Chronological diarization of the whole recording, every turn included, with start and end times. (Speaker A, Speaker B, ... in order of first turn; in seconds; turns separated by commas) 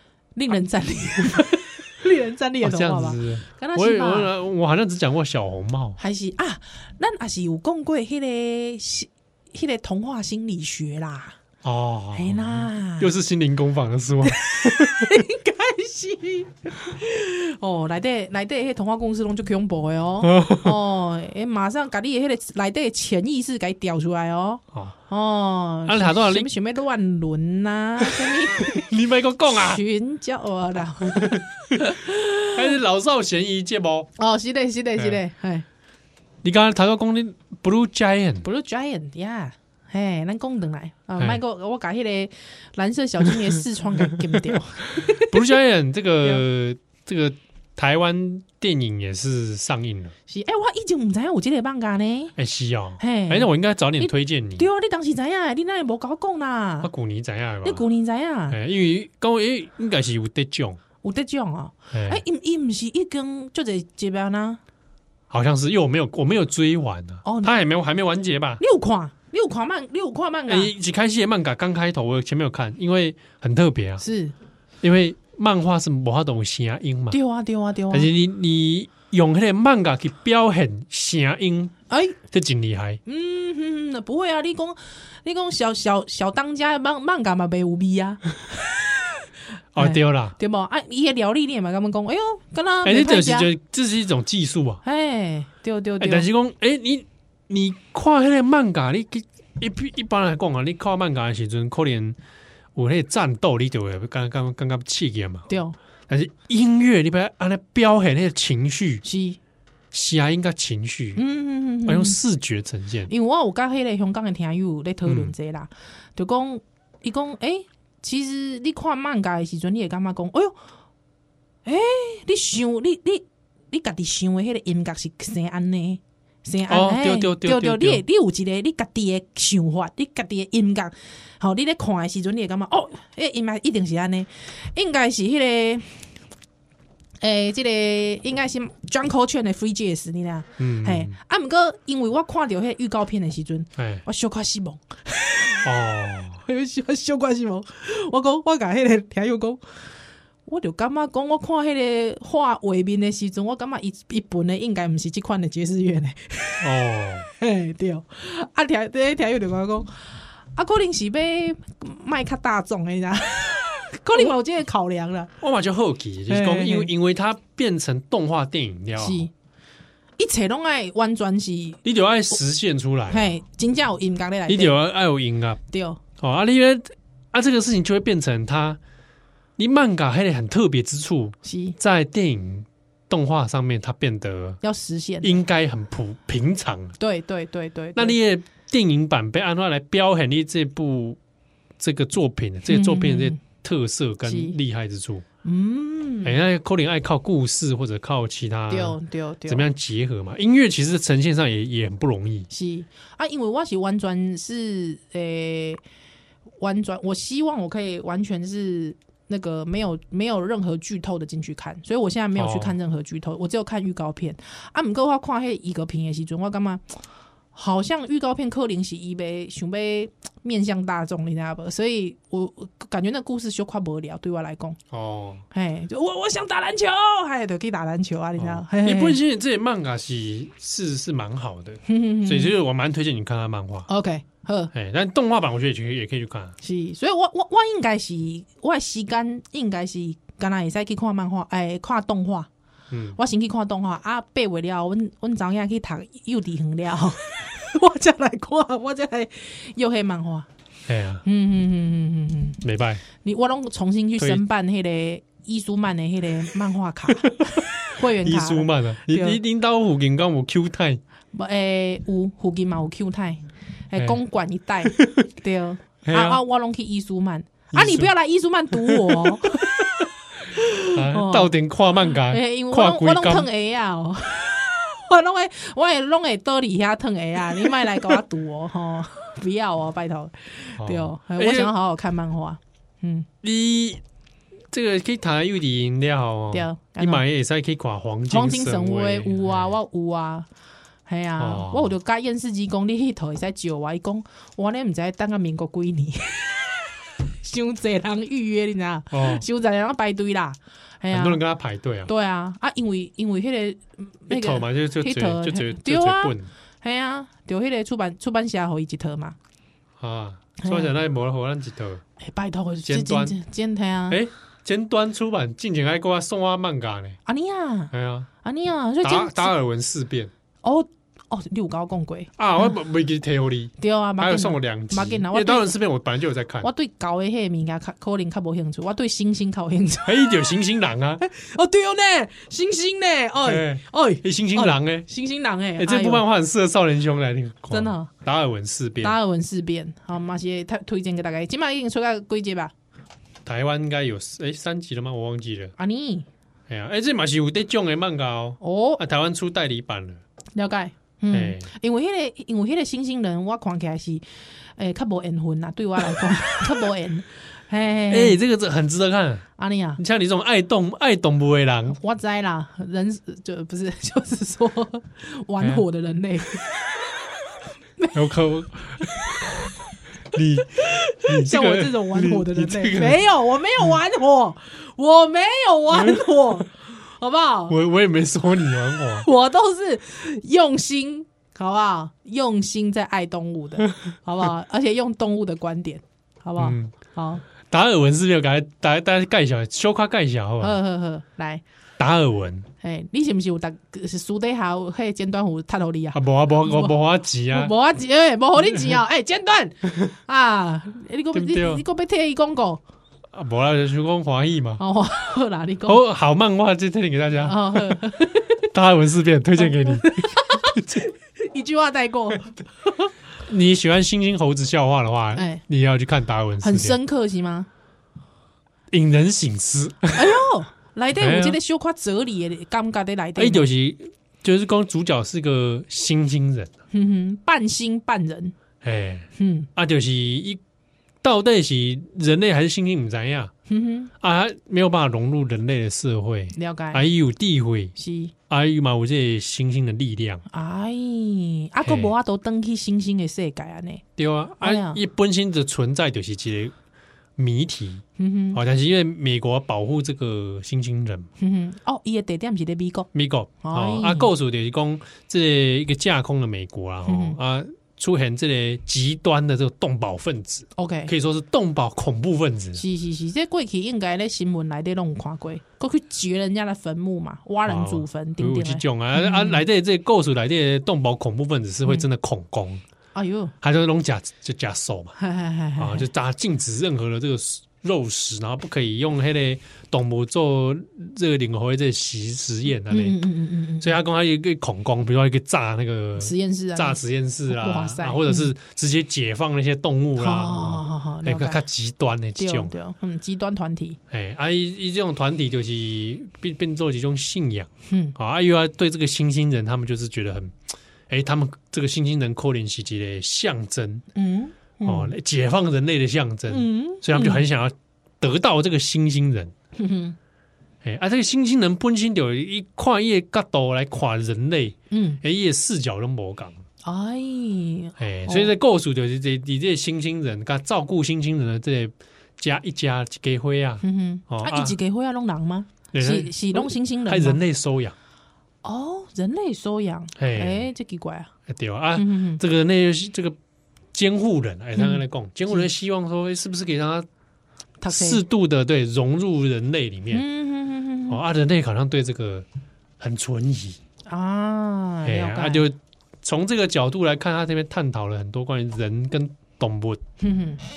Speaker A: 0.4-4.3, Speaker B: 2.6-6.0, Speaker A: 6.0-11.4, Speaker B: 11.6-15.2, Speaker A: 12.1-13.1, Speaker A: 14.2-28.9, Speaker B: 20.2-20.8, Speaker B: 25.9-26.5, Speaker B: 28.0-29.8, Speaker A: 29.5-32.7, Speaker B: 31.2-31.8, Speaker B: 32.5-34.1, Speaker A: 34.2-35.7, Speaker B: 36.4-38.5, Speaker A: 38.4-45.5, Speaker B: 44.3-50.1, Speaker A: 50.3-52.4, Speaker B: 52.4-54.7, Speaker A: 53.0-56.9, Speaker B: 56.8-57.9, Speaker A: 57.6-58.6, Speaker B: 58.5-60.8, Speaker A: 61.0-64.6, Speaker B: 61.9-62.2, Speaker B: 65.3-68.6, Speaker A: 67.2-67.6, Speaker A: 68.6-70.7, Speaker B: 70.5-74.0, Speaker A: 74.0-74.3, Speaker B: 74.8-77.2, Speaker A: 77.1-78.1, Speaker B: 77.9-81.7, Speaker A: 81.9-82.2, Speaker B: 82.3-83.0, Speaker A: 83.1-89.2, Speaker B: 89.8-90.4, Speaker A: 89.8-93.5, Speaker B: 92.8-94.8, Speaker A: 94.8-96.3, Speaker B: 96.0-102.2, Speaker B: 102.8-105.5, Speaker A: 105.5-105.8, Speaker B: 106.1-109.0, Speaker A: 109.0-109.4, Speaker B: 109.9-111.2, Speaker A: 111.2-112.2, Speaker B: 111.9-113.1, Speaker A: 113.1-120.6, Speaker B: 115.0-115.3, Speaker A: 121.7-136.1, Speaker B: 126.7-128.0, Speaker A: 137.2-145.7, Speaker B: 140.6-141.1, Speaker B: 143.8-144.0, Speaker B: 145.6-146.4, Speaker A: 146.4-149.6, Speaker A: 150.5-156.7, Speaker B: 156.6-157.3, Speaker A: 157.4-159.9, Speaker A: 160.6-165.3, Speaker B: 165.4-169.3, Speaker A: 166.3-166.9, Speaker A: 169.0-169.3, Speaker A: 170.2-171.8, Speaker B: 171.8-173.3, Speaker A: 173.1-174.8, Speaker B: 174.5-175.6, Speaker A: 175.7-176.0, Speaker B: 176.2-178.8, Speaker B: 179.6-184.6, Speaker A: 181.4-181.8, Speaker A: 184.6-185.3, Speaker B: 185.2-187.0, Speaker A: 187.0-188.2, Speaker B: 187.9-191.2, Speaker B: 191.8-195.2, Speaker A: 192.7-193.4, Speaker A: 194.3-194.6, Speaker A: 195.4-196.4, Speaker B: 196.2-202.5, Speaker A: 198.7-199.7, Speaker A: 202.5-205.8, Speaker A: 206.6-217.0, Speaker B: 212.4-212.8, Speaker A: 217.6-224.8, Speaker B: 224.9-225.4, Speaker A: 225.5-229.2, Speaker B: 228.4-233.9, Speaker A: 231.9-232.6, Speaker A: 233.9-234.7, Speaker B: 234.7-236.6, Speaker A: 236.6-242.5, Speaker B: 242.9-243.2, Speaker A: 243.2-250.5, Speaker B: 250.9-251.2, Speaker A: 251.2-252.6, Speaker B: 252.6-253.0, Speaker A: 253.2-259.4, Speaker B: 258.0-261.0, Speaker A: 261.3-269.9, Speaker B: 264.9-265.2, Speaker B: 266.1-266.4, Speaker B: 267.7-268.1, Speaker B: 268.7-269.8, Speaker A: 270.4-271.5, Speaker B: 270.9-273.5, Speaker A: 272.3-283.3, Speaker B: 280.8-281.7, Speaker B: 283.4-284.0, Speaker B: 284.7-289.8, Speaker A: 286.5-287.2, Speaker A: 288.3-290.5, Speaker A: 291.1-301.4, Speaker B: 291.4-291.9, Speaker B: 299.1-299.4, Speaker B: 301.1-302.1, Speaker A: 302.1-309.4, Speaker B: 304.3-306.5, Speaker B: 310.0-312.0, Speaker A: 310.6-310.9, Speaker A: 312.2-314.2, Speaker B: 312.9-313.4, Speaker B: 314.1-317.2, Speaker A: 317.3-317.9, Speaker B: 317.9-318.3, Speaker A: 318.4-319.5, Speaker B: 319.0-320.3, Speaker A: 320.6-322.8, Speaker B: 322.4-326.7, Speaker A: 323.8-325.8, Speaker A: 326.6-330.5, Speaker B: 330.1-331.2, Speaker A: 331.2-336.2, Speaker B: 333.4-335.1, Speaker B: 335.8-339.2, Speaker A: 337.7-338.1, Speaker A: 339.0-342.7, Speaker B: 343.4-345.7, Speaker A: 345.8-346.3, Speaker B: 346.7-350.2, Speaker A: 348.6-349.0, Speaker A: 350.6-354.2, Speaker B: 351.3-351.7, Speaker A: 354.8-358.4, Speaker B: 358.1-359.5, Speaker A: 359.6-360.0, Speaker B: 360.0-362.0, Speaker A: 361.9-366.7, Speaker B: 368.1-369.6, Speaker B: 370.3-373.3, Speaker A: 370.8-377.8, Speaker B: 375.9-376.5, Speaker B: 377.7-379.3, Speaker A: 379.2-387.4, Speaker B: 386.6-386.9, Speaker B: 387.6-390.8, Speaker A: 390.6-391.6, Speaker B: 392.0-392.7, Speaker A: 392.8-397.0, Speaker B: 396.1-397.7, Speaker A: 397.5-402.8, Speaker B: 401.3-401.8, Speaker B: 403.3-404.8, Speaker A: 404.8-406.0, Speaker B: 405.9-408.1, Speaker A: 407.4-408.6, Speaker B: 408.7-411.0, Speaker A: 409.6-413.1, Speaker B: 413.4-417.0, Speaker A: 415.4-415.6, Speaker A: 416.6-417.7, Speaker B: 418.9-420.4, Speaker A: 420.1-423.7, Speaker B: 421.2-421.6, Speaker B: 423.4-426.7, Speaker A: 426.9-428.6, Speaker B: 428.8-430.6, Speaker A: 429.4-429.7, Speaker B: 431.2-433.5, Speaker A: 433.7-434.1, Speaker B: 434.2-437.9, Speaker A: 436.5-437.0, Speaker A: 438.0-438.3, Speaker B: 438.5-440.4, Speaker A: 440.5-444.0, Speaker B: 441.8-442.1, Speaker B: 444.2-446.7, Speaker A: 444.6-445.0, Speaker B: 447.4-451.3, Speaker A: 448.2-448.6, Speaker A: 451.4-453.1, Speaker B: 453.1-462.8, Speaker A: 453.6-454.3, Speaker A: 457.1-457.4, Speaker A: 460.8-461.1, Speaker A: 462.8-469.6, Speaker B: 467.7-472.8, Speaker A: 473.1-473.5, Speaker B: 473.6-475.2, Speaker A: 475.2-476.1, Speaker B: 475.8-483.2, Speaker A: 482.9-484.0, Speaker B: 483.8-492.7, Speaker A: 486.2-488.5, Speaker A: 490.2-491.6, Speaker A: 492.4-494.0, Speaker B: 494.1-500.6, Speaker A: 497.9-498.2, Speaker B: 501.1-504.1, Speaker A: 504.1-505.1, Speaker B: 504.9-509.5, Speaker A: 506.5-507.4, Speaker A: 509.8-510.2, Speaker B: 510.8-516.6, Speaker A: 514.9-515.2, Speaker A: 516.8-518.5, Speaker B: 518.0-524.8, Speaker A: 523.8-527.4, Speaker B: 525.9-528.0, Speaker A: 528.6-531.3, Speaker B: 530.2-530.7, Speaker B: 531.5-533.4, Speaker A: 532.0-532.4, Speaker B: 533.9-537.1, Speaker A: 534.8-535.7, Speaker A: 537.8-538.2, Speaker B: 537.9-540.2, Speaker A: 540.1-541.2, Speaker B: 541.1-542.5, Speaker B: 543.0-543.8, Speaker A: 544.1-545.7, Speaker B: 545.0-550.0, Speaker A: 550.2-550.6